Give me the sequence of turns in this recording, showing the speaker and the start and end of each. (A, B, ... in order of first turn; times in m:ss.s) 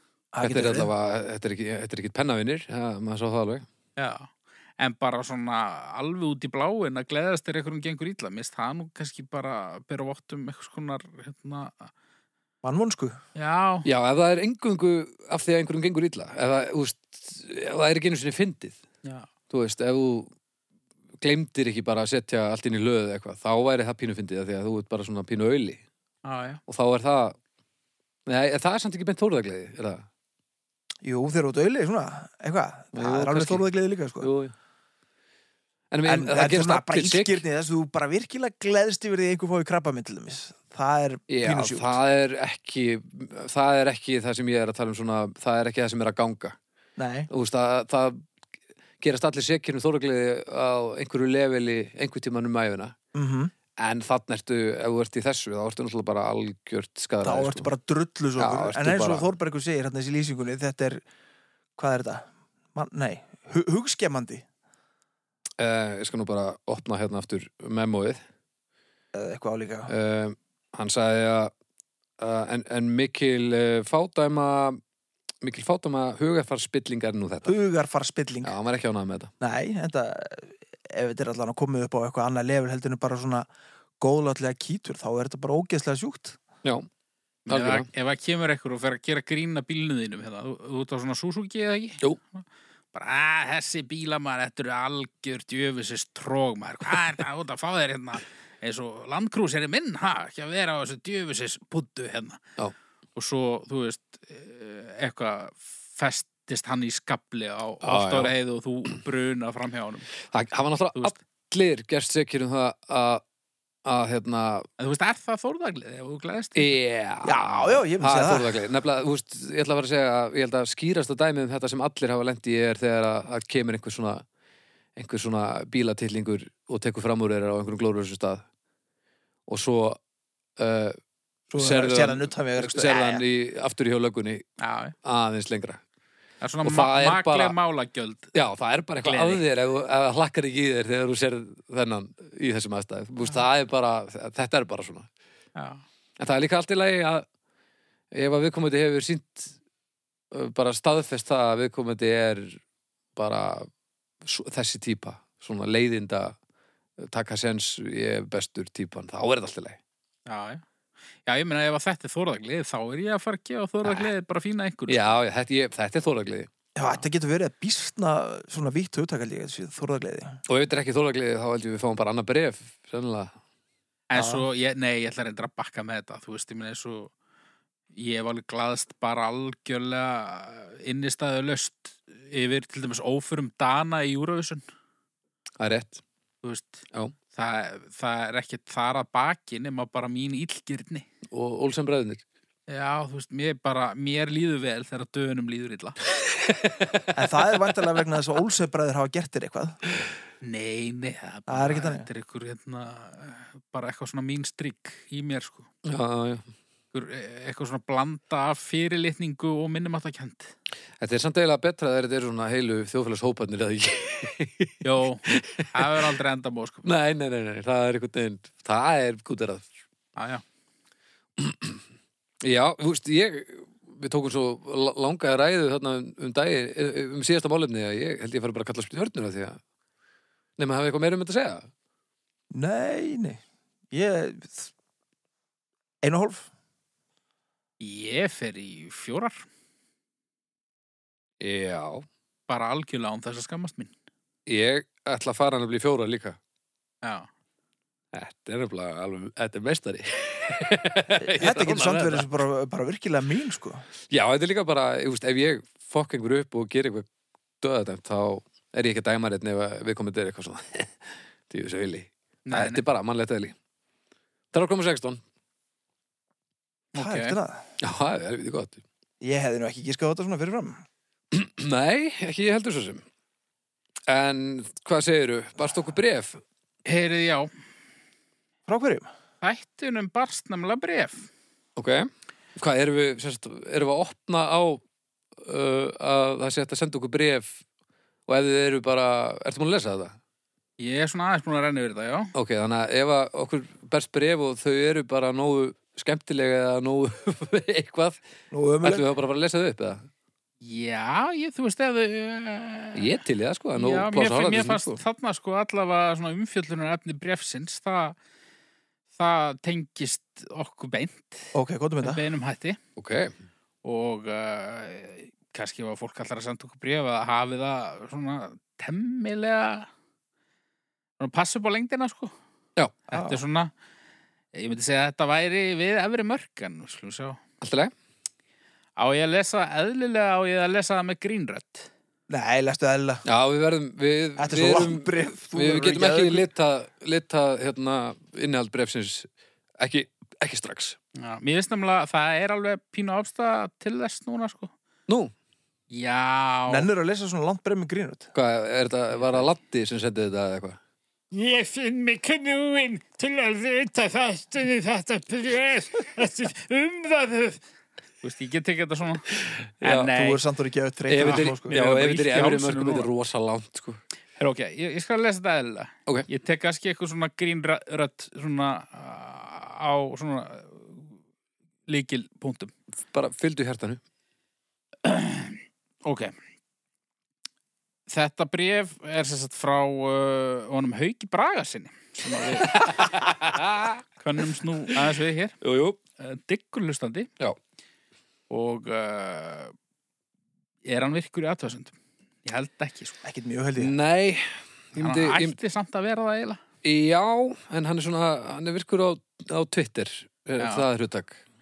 0:00.3-0:00.9 A
0:00.4-0:03.7 B
0:04.0-0:11.9 C
0:12.6-0:13.2 A
0:13.3-0:13.9 C
0:13.8-0:18.8 B
0:19.0-0:19.3 C
0:19.5-0:20.3 B
0:21.2-0:25.8 B
0:26.2-0:26.6 C
0:26.7-0:27.4 B
0:28.3-0:30.1 B
0:31.0-0:34.3 A
0:32.9-0:33.7 B
0:34.2-0:34.5 B
0:35.9-0:37.4 B
0:36.0-0:42.0 A
0:41.3-0:46.6 B
0:47.0-0:47.3 A
0:47.3-0:48.2 B
0:49.0-0:53.0 B
0:53.1-0:53.5 A
0:53.8-0:57.7 B
0:57.2-1:01.0 A
0:58.4-0:59.3 B
1:01.8-1:04.4 A
1:05.6-1:08.2 B
1:09.1-1:09.9 A
1:09.9-1:11.5 B
1:12.2-1:14.8 B
1:15.4-1:17.5 B
1:17.4-1:18.5 A
1:18.4-1:19.3 B
1:19.4-1:23.5 A
1:24.0-1:26.4 A
1:27.5-1:32.4 C
1:27.5-1:27.9 B
1:32.9-1:42.4 C
1:43.1-1:50.1 C
1:47.8-1:48.3 B
1:50.3-1:53.2 B
1:53.8-1:54.7 B
1:54.8-1:56.7 C
1:56.5-2:04.2 B
1:57.2-1:58.7 A
2:05.0-2:08.4 B
2:09.5-2:10.0 B
2:10.6-2:11.0 B
2:11.5-2:13.2 A
2:11.6-2:14.4 B
2:14.6-2:14.9 C
2:15.0-2:15.8 B
2:16.4-2:18.3 C
2:16.6-2:17.5 B
2:18.3-2:25.1 B
2:19.0-2:19.4 C
2:25.6-2:25.8 C
2:26.2-2:27.2 B
2:28.1-2:29.5 B
2:30.3-2:32.6 B
2:33.1-2:33.7 B
2:34.2-2:36.4 B
2:37.0-2:39.8 B
2:40.2-2:40.6 C
2:41.2-2:45.2 C
2:44.9-2:46.5 B
2:46.8-2:50.4 A
2:50.5-2:53.3 B
2:54.1-2:57.1 C
2:54.1-2:54.4 A
2:57.9-3:04.6 C
3:05.6-3:06.0 B
3:06.4-3:11.0 C
3:11.3-3:12.2 B
3:12.7-3:16.0 C
3:16.3-3:17.1 B
3:17.1-3:19.8 A
3:20.4-3:25.7 C
3:21.5-3:22.0 A
3:25.8-3:26.5 B
3:26.9-3:30.5 C
3:31.0-3:36.0 B
3:34.8-3:36.8 C
3:36.8-3:39.7 B
3:40.2-3:40.4 C
3:41.4-3:41.8 B
3:42.4-3:49.6 B
3:50.6-3:51.7 B
3:52.5-3:53.4 A
3:53.9-3:54.7 A
3:56.0-3:56.5 A
3:57.8-3:59.4 C
4:01.4-4:02.0 B
4:02.5-4:03.9 C
4:04.4-4:06.4 B
4:07.0-4:07.3 C
4:08.1-4:12.3 B
4:11.2-4:13.8 A
4:14.1-4:17.0 B
4:17.6-4:23.5 B
4:22.4-4:22.8 C
4:24.5-4:25.2 B
4:26.9-4:27.3 C
4:27.0-4:27.6 A
4:27.8-4:28.8 B
4:29.2-4:30.8 A
4:31.3-4:33.0 B
4:34.1-4:36.4 B
4:36.8-4:37.5 C
4:38.7-4:39.1 A
4:39.4-4:41.3 C
4:41.8-4:44.8 B
4:45.4-4:47.6 B
4:48.3-4:50.2 B
4:50.8-4:52.3 C
4:52.3-4:58.2 B
4:58.5-4:59.0 A
4:58.8-5:00.1 B
5:00.6-5:03.1 C
5:02.9-5:05.0 B
5:03.8-5:08.2 C
5:09.1-5:12.8 C
5:11.5-5:12.2 A
5:13.0-5:13.3 B
5:13.8-5:19.9 C
5:21.2-5:22.3 C
5:23.1-5:23.4 A
5:23.1-5:23.7 C
5:24.5-5:27.4 C
5:27.6-5:27.9 B
5:29.0-5:31.9 C
5:32.3-5:33.2 A
5:33.2-5:39.3 B
5:34.4-5:36.5 A
5:39.8-5:41.0 B
5:41.2-5:44.7 C
5:45.1-5:45.3 B
5:45.9-5:46.9 C
5:46.7-5:48.3 A
5:48.3-5:50.8 B
5:49.1-5:49.4 C
5:51.3-5:57.6 C
5:58.2-5:59.3 C
5:59.4-6:00.1 B
5:59.8-6:00.4 C
6:00.1-6:01.8 A
6:01.1-6:04.0 B
6:01.2-6:03.1 C
6:04.4-6:11.1 C
6:11.9-6:12.7 C
6:13.1-6:14.0 B
6:15.0-6:16.3 C
6:18.1-6:23.3 C
6:22.5-6:24.0 B
6:24.2-6:25.6 C
6:25.6-6:26.0 B
6:26.2-6:27.3 C
6:28.5-6:29.7 C
6:30.8-6:33.2 C
6:33.2-6:33.9 A
6:33.8-6:35.6 B
6:35.0-6:36.6 C
6:36.8-6:41.4 B
6:40.6-6:40.9 C